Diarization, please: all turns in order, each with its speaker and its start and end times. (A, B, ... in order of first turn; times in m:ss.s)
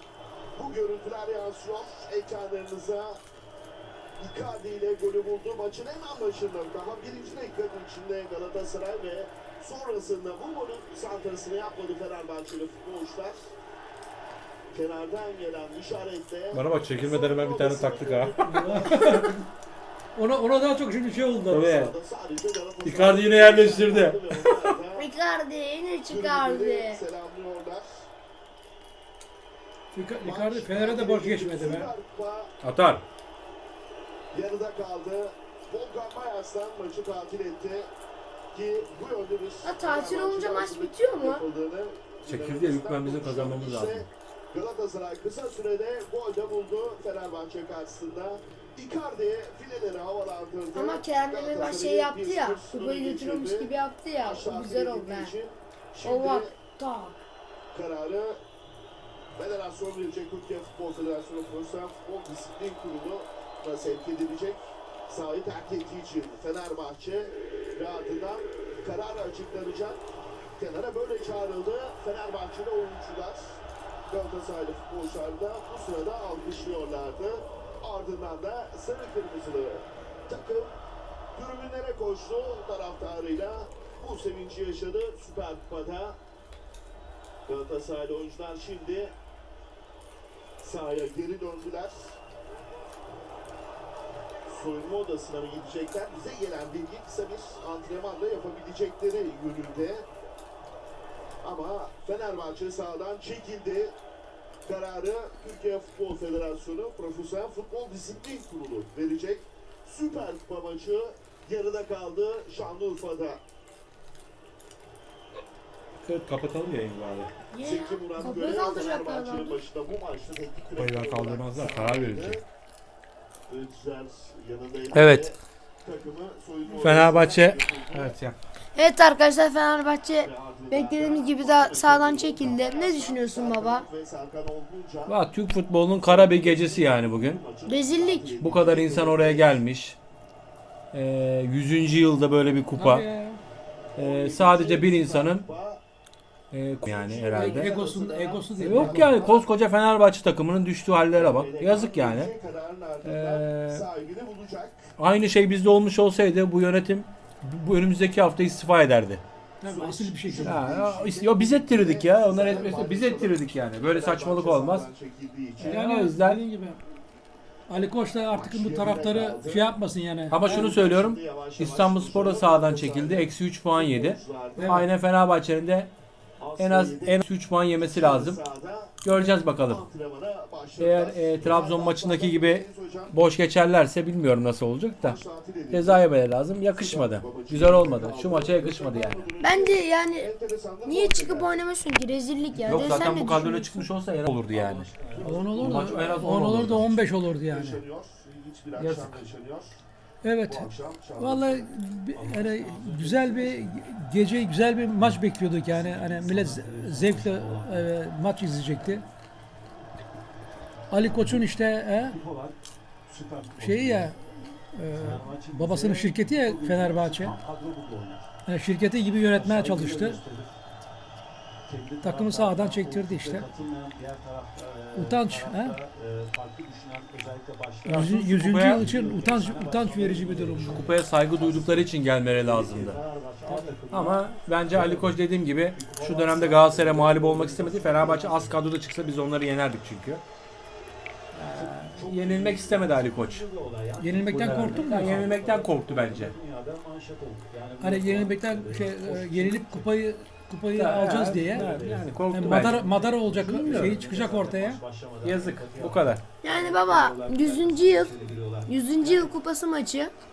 0:00.6-0:03.2 A
0:04.2-0:13.5 A
0:14.7-0:19.2 A
0:16.5-0:19.4 B
0:18.4-0:19.4 C
0:20.1-0:21.7 C
0:21.5-0:21.9 B
0:21.5-0:25.1 A
0:22.8-0:24.7 B
0:25.0-0:27.0 D
0:26.1-0:28.0 A
0:29.9-0:31.9 C
0:30.2-0:32.5 A
0:32.6-0:33.0 B
0:34.3-0:37.9 A
0:38.5-0:56.5 A
0:39.6-0:41.4 D
0:42.2-0:44.1 B
0:50.7-0:55.4 D
0:56.0-0:57.2 D
0:57.7-0:58.4 A
0:59.4-1:10.0 A
1:10.6-1:20.7 A
1:21.3-1:26.2 A
1:27.5-1:29.1 A
1:30.6-1:32.2 A
1:34.5-1:40.0 A
1:41.4-1:43.9 A
1:44.6-1:53.4 A
1:56.0-1:57.3 B
1:57.5-1:59.6 D
1:57.6-2:02.4 A
2:00.8-2:02.4 B
2:03.5-2:08.1 A
2:04.9-2:05.3 B
2:06.8-2:08.3 B
2:08.7-2:13.8 D
2:10.2-2:15.2 A
2:15.1-2:17.4 B
2:16.0-2:19.6 A
2:17.6-2:18.3 D
2:18.4-2:20.0 B
2:20.9-2:23.0 B
2:22.8-2:23.4 C
2:24.0-2:25.5 B
2:24.0-2:25.8 A
2:26.5-2:27.8 B
2:26.8-2:29.5 A
2:27.3-2:29.1 C
2:28.6-2:32.3 B
2:31.1-2:34.9 A
2:33.0-2:33.9 B
2:35.0-2:39.2 B
2:39.6-2:40.6 C
2:39.6-2:45.8 A
2:40.4-2:44.9 B
2:45.6-2:46.8 C
2:45.6-2:46.4 B
2:47.7-2:50.4 C
2:48.3-2:49.7 A
2:50.3-2:55.9 B
2:50.4-2:54.9 A
2:54.6-2:54.9 C
2:56.4-2:57.2 A
2:56.6-2:58.4 B
2:57.8-3:03.2 A
2:59.0-2:59.8 B
3:00.8-3:09.3 B
3:05.0-3:06.0 A
3:06.8-3:11.5 A
3:09.4-3:10.3 D
3:10.8-3:13.8 D
3:12.6-3:14.9 B
3:14.5-3:15.7 E
3:15.1-3:16.5 A
3:15.2-3:17.8 C
3:15.6-3:16.9 B
3:17.4-3:19.8 A
3:18.8-3:19.2 B
3:20.2-3:29.0 C
3:20.4-3:21.7 A
3:22.1-3:23.8 E
3:25.7-3:27.9 E
3:30.9-3:32.2 C
3:32.0-3:34.1 E
3:33.6-3:37.3 C
3:34.9-3:38.3 E
3:38.4-3:40.2 C
3:39.3-3:40.5 E
3:41.7-3:58.6 E
3:42.0-3:43.5 C
3:44.9-3:45.8 C
3:47.9-3:50.9 C
3:47.9-3:48.8 B
3:50.7-3:53.0 B
3:53.5-3:53.7 C
3:53.9-4:00.2 B
4:01.3-4:02.0 C
4:01.4-4:10.0 E
4:01.9-4:03.4 B
4:04.0-4:05.2 C
4:04.3-4:06.3 B
4:07.8-4:11.7 C
4:10.7-4:12.8 B
4:11.3-4:19.4 E
4:12.3-4:14.8 C
4:13.4-4:14.0 B
4:15.2-4:16.2 B
4:16.4-4:18.1 D
4:18.6-4:20.1 D